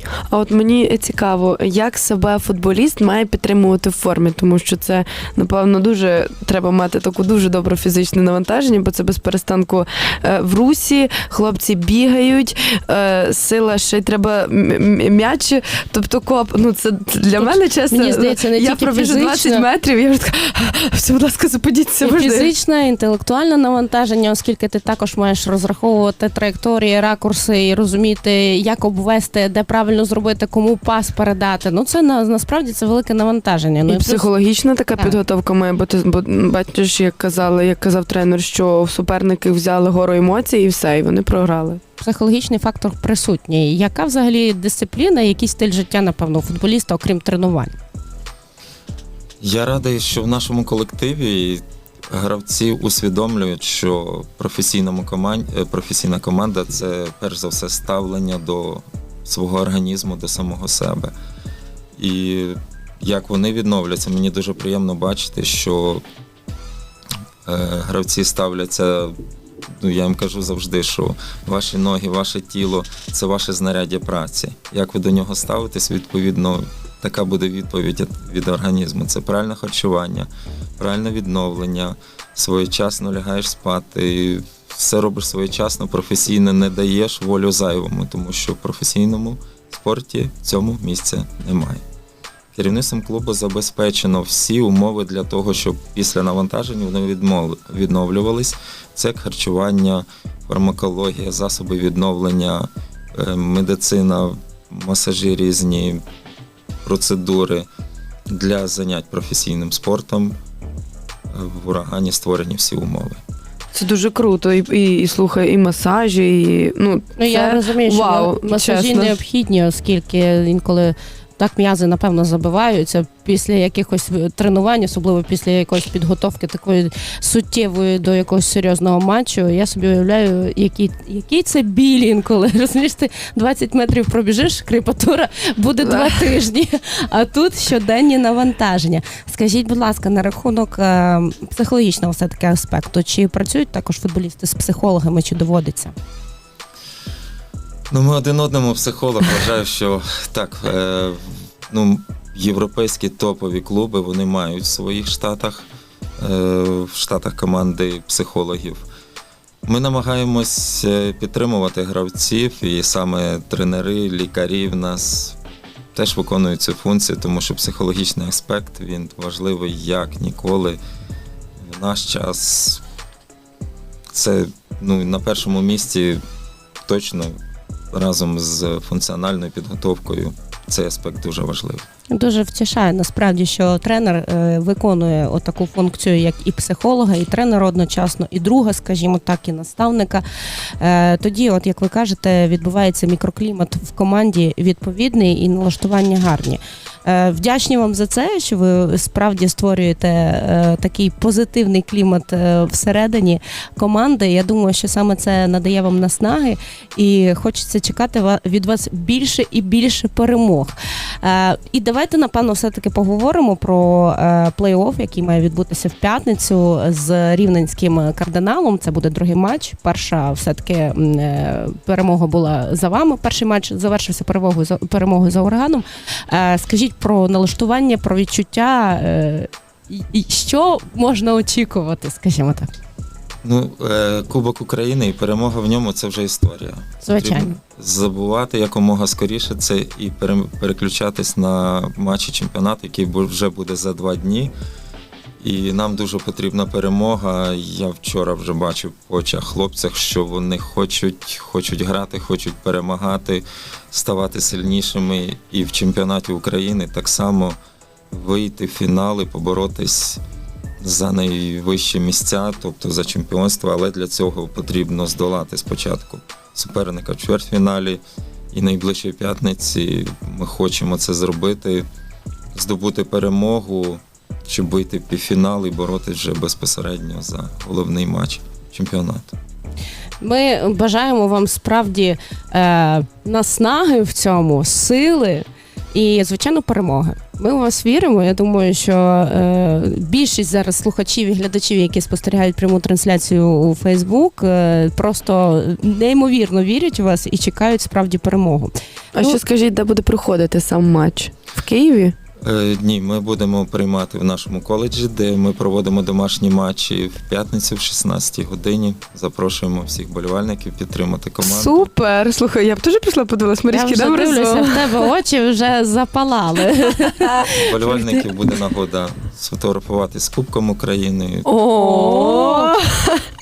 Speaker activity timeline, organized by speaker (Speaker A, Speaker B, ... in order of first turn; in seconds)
Speaker A: 0.3-22.5, 33.9-41.8, 113.7-119.2, 135.8-136.4, 299.1-302.1, 311.4-315.0, 321.5-323.2
Speaker B: 17.4-19.6, 22.0-34.3, 42.0-47.8, 117.2-145.9, 182.1-190.2, 190.8-232.7, 237.0-237.6, 280.2-299.4, 313.7-318.1, 321.8-322.8
Speaker C: 49.4-61.1, 62.0-66.0, 67.5-91.8, 92.5-106.0, 106.8-107.7, 108.3-110.4, 111.3-113.2, 147.9-155.7, 156.2-158.8, 159.7-165.4, 165.9-170.8, 171.6-172.8, 174.1-176.2, 176.9-177.4, 177.9-181.9, 233.4-244.5, 245.4-257.6, 258.1-260.2, 260.8-271.9, 272.5-279.4, 302.4-311.9, 317.6-321.5